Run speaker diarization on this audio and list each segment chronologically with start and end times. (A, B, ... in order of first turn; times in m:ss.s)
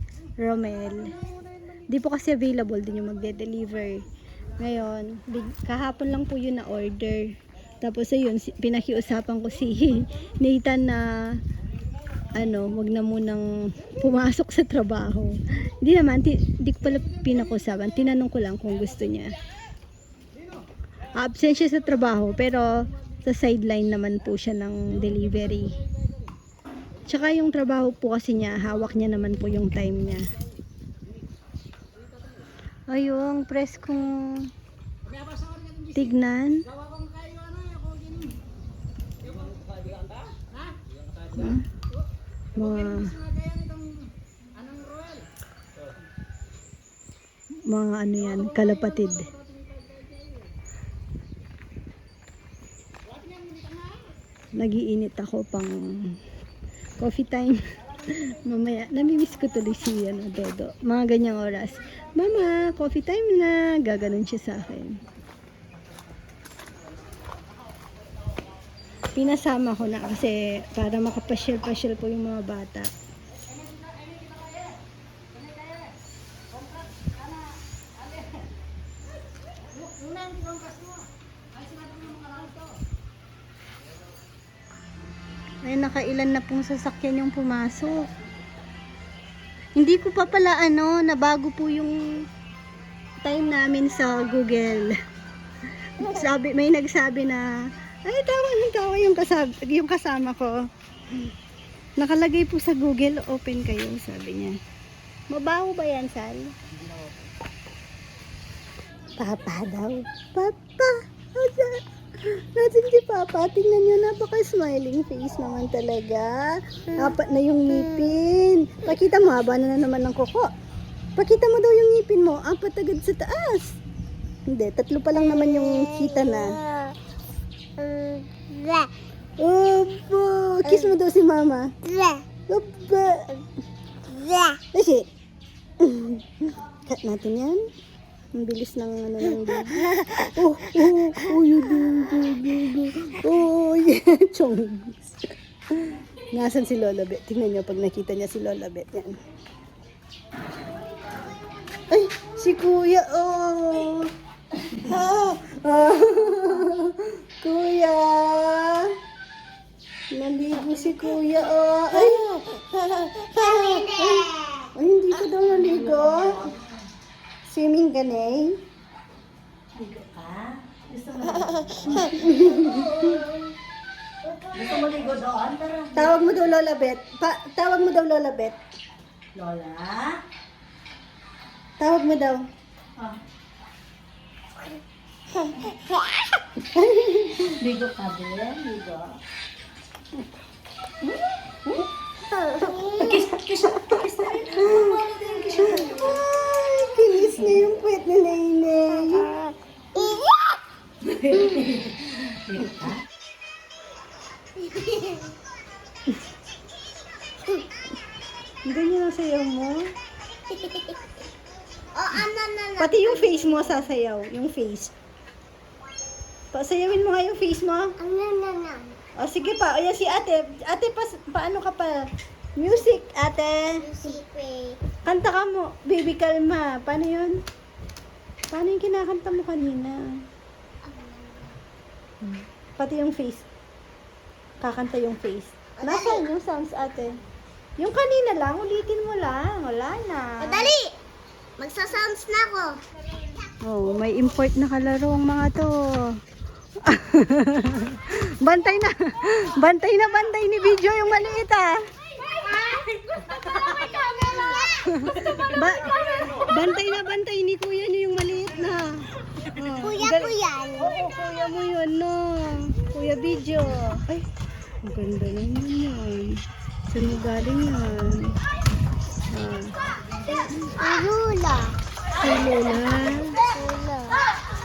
0:00.4-0:01.2 A
0:01.9-0:04.0 A
0:04.6-0:11.1 A
0:12.4-0:19.4 A
0:21.2-0:25.8 A
0:27.1-0:30.3 A
0:32.9-0:34.5 A
0:35.9-0:36.7 A
0:41.3-0:41.6 A
0:42.6-0:43.2 A
0:47.7-0:49.3 A
0:54.6-0:56.2 A
0:57.0-1:05.0 A
1:09.1-1:12.9 A
1:25.6-1:28.1 A
1:29.8-1:32.1 A
1:33.2-1:35.0 A
1:36.0-1:37.5 A
1:38.1-1:40.6 A
1:42.0-1:44.5 A
1:45.3-1:46.5 A
1:49.2-2:00.5 A
2:01.2-2:03.7 A
2:04.5-2:06.6 A
2:05.2-2:07.0 B
2:07.8-2:08.9 B
2:09.4-2:11.7 A
2:10.6-2:10.9 B
2:11.8-2:12.2 B
2:12.5-2:13.5 A
2:14.1-2:14.6 B
2:14.7-2:15.1 A
2:15.8-2:17.6 A
2:18.3-2:25.2 A
2:25.8-2:29.2 A
2:31.9-2:34.1 A
2:34.7-2:38.9 A
2:40.1-2:46.5 A
2:43.3-2:44.7 B
2:47.5-2:48.6 A
2:49.8-2:52.2 C
2:51.9-2:53.2 A
2:52.7-2:53.1 C
2:54.5-2:55.9 C
2:55.9-2:58.6 A
2:59.4-3:00.1 C
3:01.8-3:02.4 A
3:06.6-3:07.6 A
3:07.6-3:09.0 C
3:11.0-3:19.4 A
3:12.8-3:13.0 B
3:13.1-3:15.6 C
3:19.1-3:20.6 B
3:21.3-3:21.7 C
3:22.5-3:22.8 C
3:24.6-3:25.4 B
3:28.7-3:29.9 A
3:30.5-3:31.0 B
3:31.9-3:33.8 B
3:32.8-3:34.9 A
3:36.5-3:38.0 A
3:38.0-3:39.0 B
3:39.2-3:42.0 A
3:42.6-3:44.2 A
3:43.8-3:44.8 B
3:45.0-3:47.4 A
3:48.5-3:50.1 A
3:50.8-3:51.6 B
3:52.3-3:53.5 A
3:54.6-3:57.1 A
3:55.8-3:56.3 B
3:57.8-4:00.7 A
4:00.4-4:00.9 B
4:01.6-4:02.8 B
4:03.6-4:06.2 A
4:06.8-4:11.8 A
4:12.2-4:15.4 B
4:14.9-4:19.0 A
4:19.5-4:24.3 A
4:19.8-4:21.0 B
4:24.8-4:28.4 A
4:29.3-4:29.7 A
4:30.3-4:31.8 B
4:32.2-4:33.4 A
4:33.4-4:34.2 B